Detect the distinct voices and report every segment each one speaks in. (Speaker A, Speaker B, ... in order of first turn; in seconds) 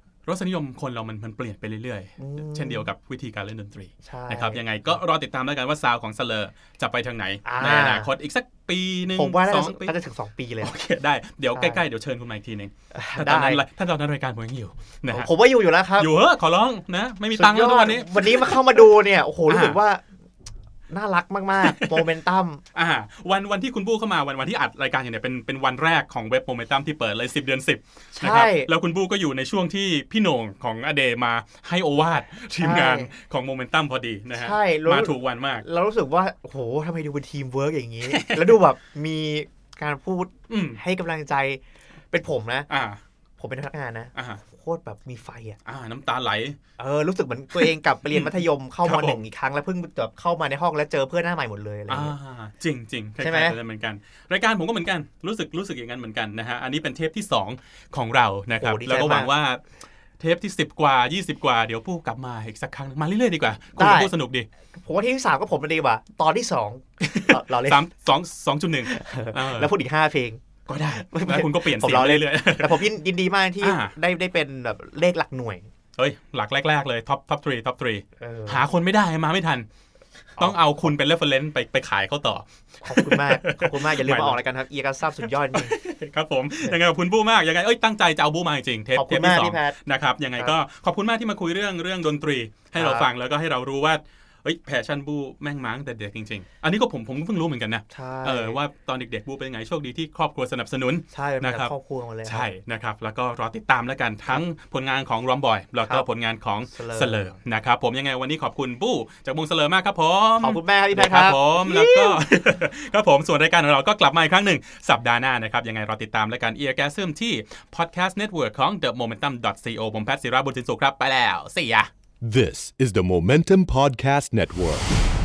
Speaker A: 0.2-9.9, 10.6-15.3, 16.0-18.9, 19.5-19.8, 21.6-22.1, 22.7-35.6, 38.0-38.6, 40.5-40.8, 42.7-43.0, 44.1-44.4, 45.6-46.6, 47.5-49.2, 51.9-59.6, 60.2-64.5, 67.0-69.7, 70.7-72.9, 73.6-73.9, 76.0-79.7, 80.4-84.4, 85.5-101.7, 102.2-121.9
Speaker B: 2.2-2.9, 4.0-5.0, 7.4-8.1, 9.1-10.7, 11.5-11.8, 12.9-13.6, 15.1-16.1, 17.3-20.0, 20.9-22.6, 28.1-28.7, 32.6-33.1, 34.3-42.7, 43.4-45.6, 46.8-52.1, 53.2-53.6, 58.6-59.3, 63.8-64.1, 64.7-67.9, 68.8-75.7, 78.2-78.7, 80.4-80.9, 82.8-85.7, 88.9-89.8, 92.8-93.1, 97.9-98.6, 101.1-102.5, 106.7-107.4, 110.4-112.2
Speaker C: 122.2-125.0